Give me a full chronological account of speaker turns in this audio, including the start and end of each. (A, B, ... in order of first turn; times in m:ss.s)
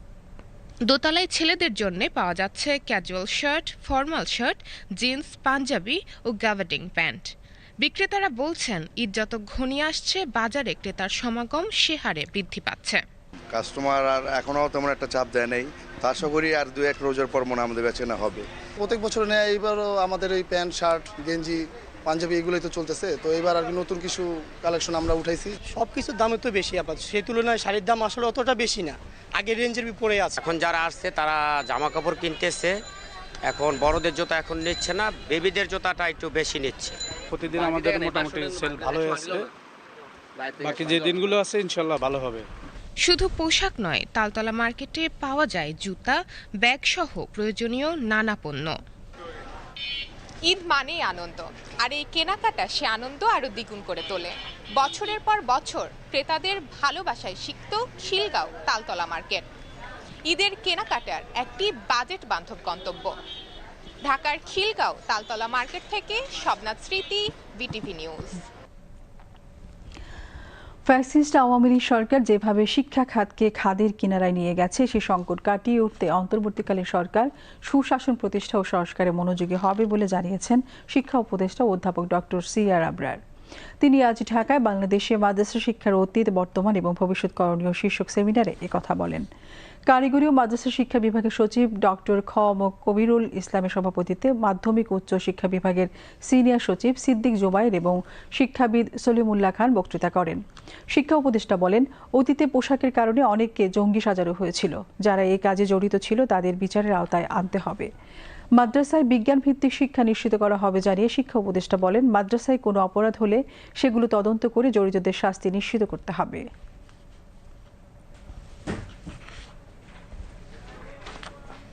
0:00.9-0:07.3 A
0:07.8-0:13.0 A
0:13.5-0:25.5 B
0:25.8-0:30.3 C
0:26.0-0:28.8 D
0:29.4-0:29.8 D
0:30.4-0:32.7 E
0:33.5-0:37.0 E
0:37.3-0:39.5 D
0:40.6-0:42.5 D
0:43.0-0:48.8 A
0:50.4-0:59.5 F
1:00.3-1:03.1 F
1:04.1-1:08.4 F
1:10.9-1:23.2 G
1:23.8-1:29.3 G
1:29.9-1:40.4 G
1:40.9-1:47.9 G
1:48.6-1:56.5 G